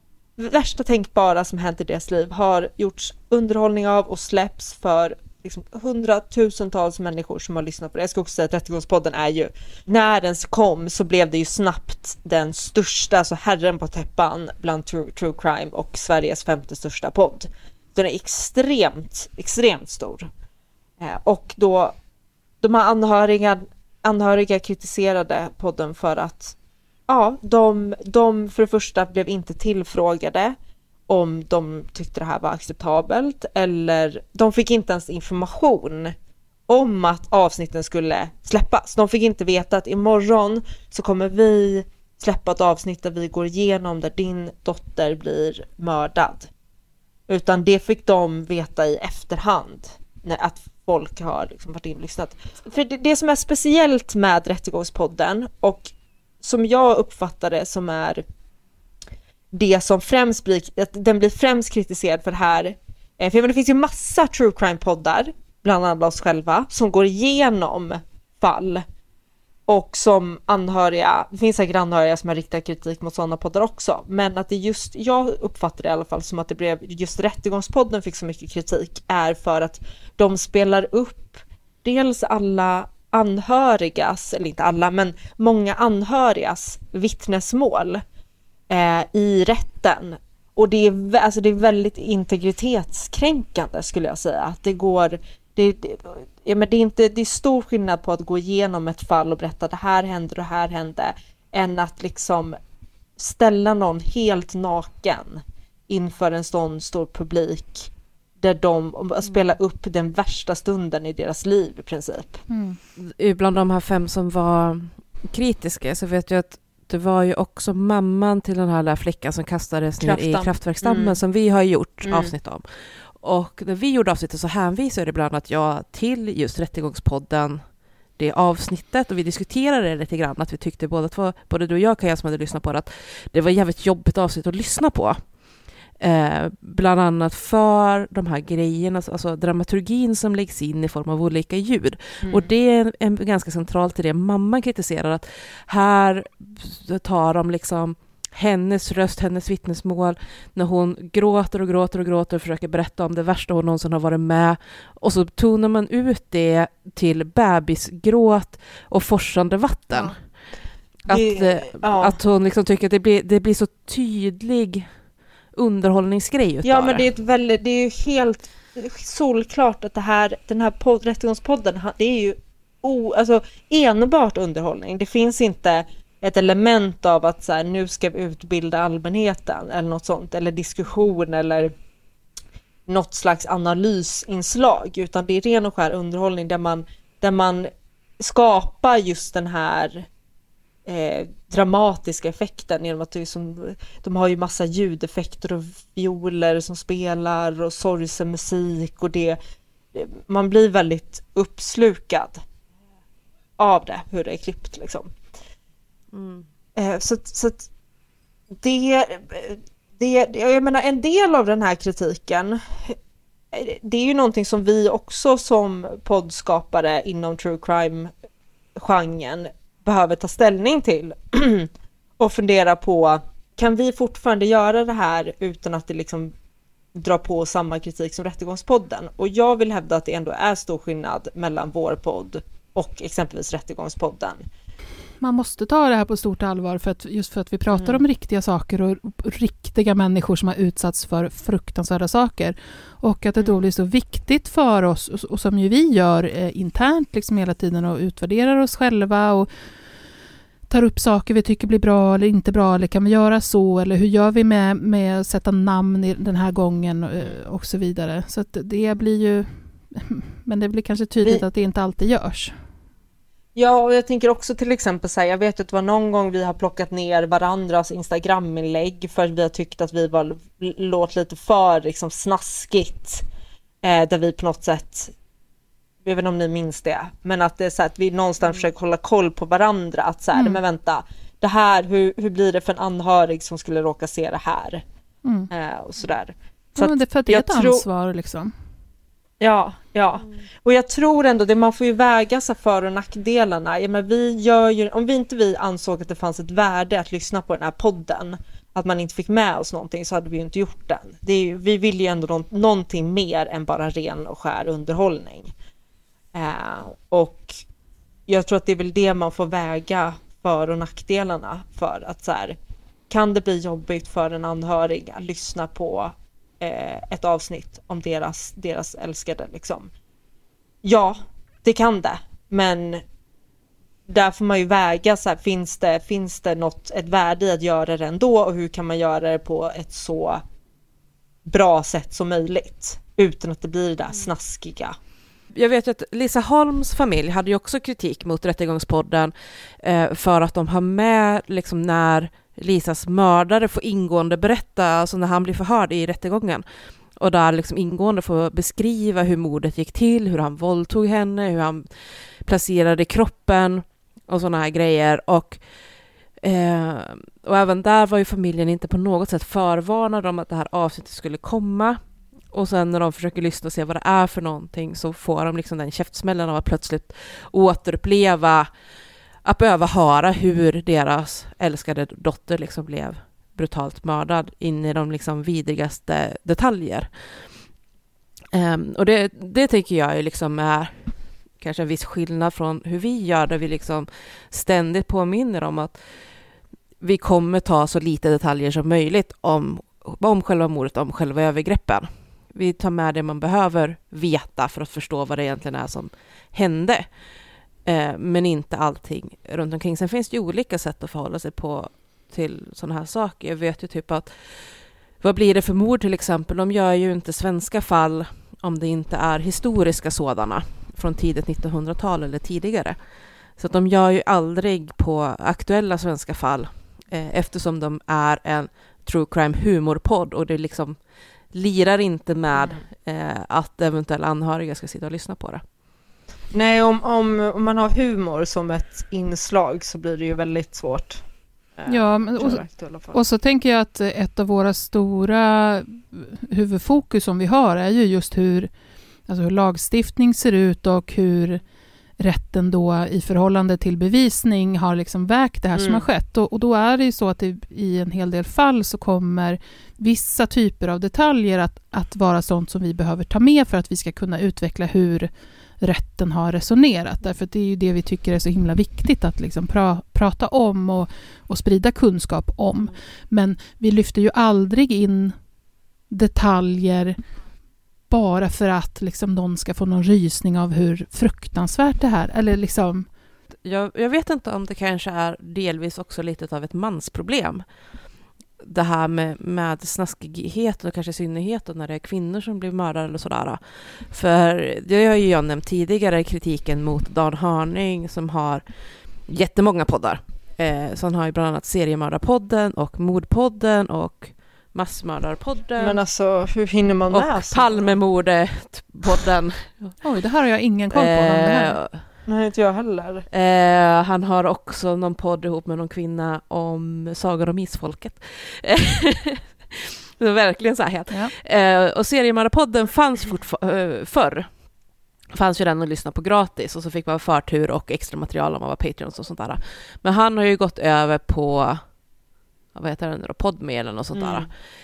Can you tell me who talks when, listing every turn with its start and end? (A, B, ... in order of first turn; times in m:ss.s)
0:00.4-0:20.3 A
0:21.0-0:21.9 A
0:22.6-0:26.5 A
0:27.1-0:30.6 A
0:31.1-0:36.1 A
0:36.7-0:46.5 A
0:47.3-0:55.9 A
0:56.4-0:58.2 A
0:59.5-1:08.8 A
1:09.7-1:28.0 A
1:28.7-1:42.6 A
1:43.2-1:47.9 A
1:48.4-1:52.4 A
1:49.2-1:49.5 B
1:52.5-1:52.8 C
1:53.0-2:07.6 B
2:00.0-2:01.2 A
2:02.0-2:02.3 A
2:08.2-2:15.2 B
2:16.0-2:40.2 B
2:22.2-2:22.5 A
2:41.1-2:44.9 B
2:41.1-2:42.2 A
2:45.5-2:47.0 B
2:46.6-3:01.7 A
3:02.9-3:10.1 A
3:10.8-3:19.4 A
3:19.9-3:22.4 A
3:23.6-3:25.1 A
3:26.1-3:26.4 B
3:26.8-3:27.7 A
3:28.6-3:33.0 A
3:33.5-3:38.1 A
3:38.8-3:46.3 A
3:46.9-3:54.4 A
3:55.2-4:09.5 C
3:57.7-3:58.0 A
4:10.7-4:22.5 C
4:23.5-4:33.2 A
4:33.8-4:35.1 A
4:36.0-4:44.8 A
4:40.3-4:40.6 C
4:45.5-4:47.8 A
4:46.8-4:48.5 C
4:49.4-5:05.5 A
5:06.3-5:07.6 A
5:08.3-5:12.6 A
5:13.1-5:19.9 A
5:20.8-5:23.0 A
5:24.1-5:30.4 A
5:31.4-5:35.0 A
5:35.5-5:46.6 B
5:47.2-5:51.9 B
5:52.4-5:55.6 B
5:56.4-6:02.0 B
6:02.5-6:08.7 B
6:09.4-6:17.5 B
6:18.5-6:26.1 B
6:27.0-6:37.1 B
6:37.8-6:53.0 B
6:53.6-7:01.0 B
7:01.5-7:05.6 B
7:02.5-7:02.8 A
7:06.5-7:11.2 A
7:11.8-7:13.2 A
7:11.9-7:18.7 C
7:19.3-7:21.6 C
7:22.2-7:45.3 C
7:25.8-7:26.0 A
7:46.1-7:47.2 C
7:48.1-7:53.1 C
7:53.6-7:57.6 B
7:58.6-8:08.6 B
8:09.2-8:16.0 B
8:15.8-8:17.9 A
8:17.1-8:20.0 B
8:20.0-8:21.8 C
8:20.9-8:22.0 B
8:22.2-8:23.2 A
8:23.3-8:34.5 B
8:35.3-8:41.8 B
8:42.7-8:44.5 B
8:44.1-8:44.5 A